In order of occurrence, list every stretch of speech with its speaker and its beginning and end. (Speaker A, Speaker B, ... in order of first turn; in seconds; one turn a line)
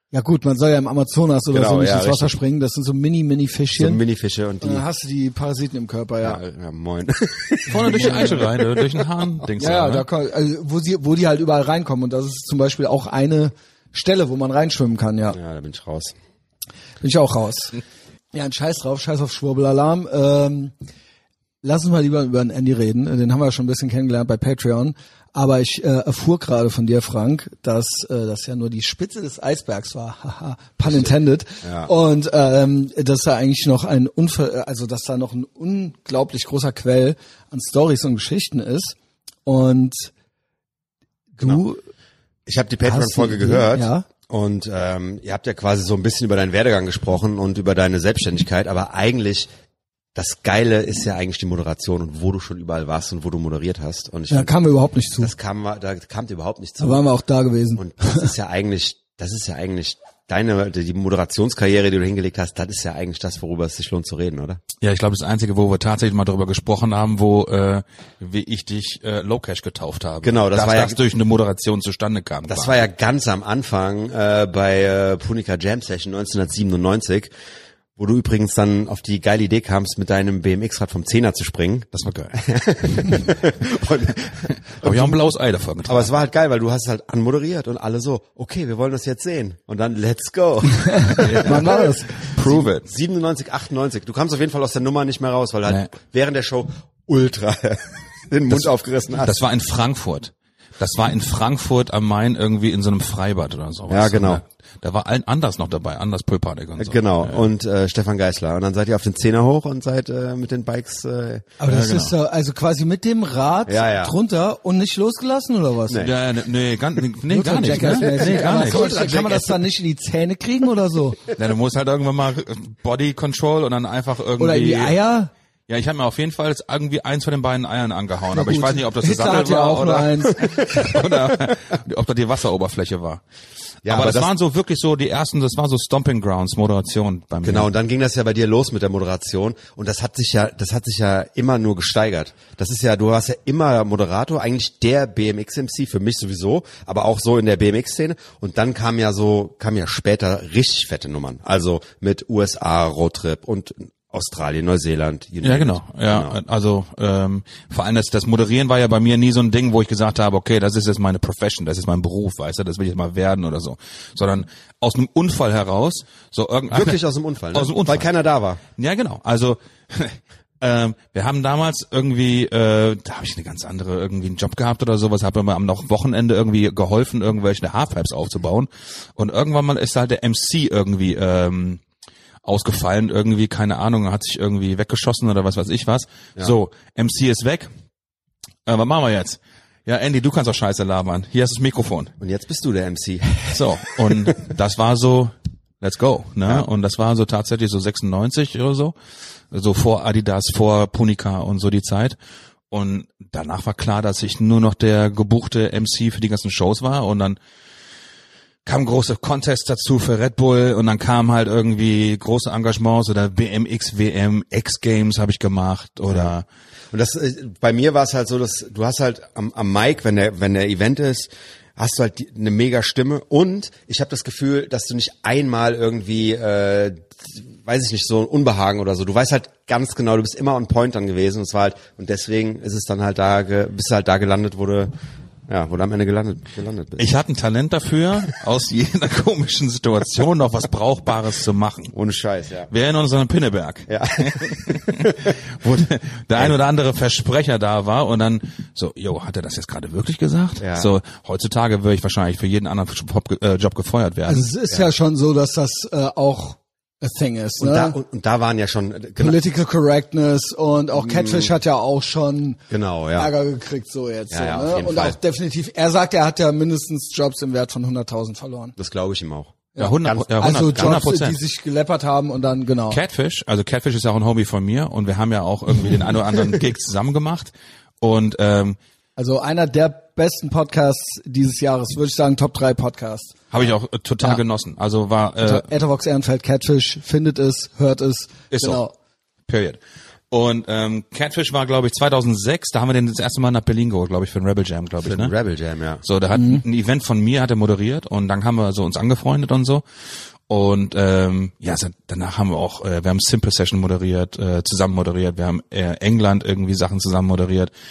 Speaker A: 0.1-4.0
Speaker B: 1.5-2.3
Speaker B: 3.7-4.8
Speaker A: 4.6-6.4
Speaker B: 6.2-9.0
Speaker A: 7.7-8.4
Speaker C: 7.7-10.1
Speaker A: 9.6-15.4
Speaker B: 15.3-16.2
Speaker A: 17.0-17.8
Speaker A: 18.3-20.7
Speaker A: 21.6-40.1
Speaker B: 31.6-31.9
Speaker A: 41.4-41.8
Speaker B: 42.5-49.5
Speaker A: 42.8-44.1
Speaker B: 50.1-54.5
Speaker A: 54.3-55.3
Speaker B: 55.2-57.0
Speaker A: 56.8-58.3
Speaker B: 57.8-64.6
Speaker C: 64.8-72.8
Speaker B: 70.2-71.0
Speaker B: 72.5-77.3
Speaker B: 78.0-85.2
Speaker C: 81.9-82.4
Speaker C: 84.7-86.1
Speaker B: 85.8-99.4
Speaker A: 90.9-92.3
Speaker C: 91.2-92.9
Speaker C: 99.2-107.5
Speaker B: 103.9-104.4
Speaker B: 106.8-111.5
Speaker A: 111.6-116.1
Speaker C: 111.7-112.1
Speaker B: 113.7-114.1
Speaker B: 115.9-116.2
Speaker C: 116.0-119.2
Speaker A: 117.3-121.2
Speaker B: 117.7-119.6
Speaker C: 121.3-125.0
Speaker A: 124.4-125.3
Speaker C: 125.7-133.2
Speaker A: 128.3-130.4
Speaker B: 130.4-131.6
Speaker B: 133.8-134.3
Speaker C: 133.8-137.7
Speaker B: 137.4-156.4
Speaker C: 155.4-167.0
Speaker B: 166.7-168.6
Speaker C: 167.5-168.1
Speaker C: 168.7-181.8
Speaker C: 182.4-187.7
Speaker C: 188.7-192.1
Speaker B: 192.2-194.3
Speaker C: 193.5-198.9
Speaker C: 199.5-202.2
Speaker C: 202.7-207.4
Speaker C: 208.7-216.5
Speaker B: 216.9-234.9
Speaker B: 235.5-237.1
Speaker C: 237.0-241.9
Speaker B: 241.9-242.7
Speaker C: 242.7-254.4
Speaker B: 243.9-245.7
Speaker B: 250.6-250.9
Speaker A: 254.3-258.0
Speaker B: 257.6-259.4
Speaker A: 259.2-262.6
Speaker B: 260.9-261.5
Speaker B: 262.7-263.3
Speaker A: 263.2-268.8
Speaker B: 264.3-265.2
Speaker B: 268.8-271.0
Speaker A: 269.8-273.0
Speaker C: 269.8-271.4
Speaker C: 272.9-278.8
Speaker A: 279.2-283.4
Speaker C: 283.5-285.7
Speaker A: 285.4-288.9
Speaker C: 288.5-288.8
Speaker C: 289.5-289.8
Speaker C: 290.3-295.3
Speaker B: 295.0-296.0
Speaker C: 296.1-299.8
Speaker A: 296.4-296.6
Speaker C: 300.5-307.7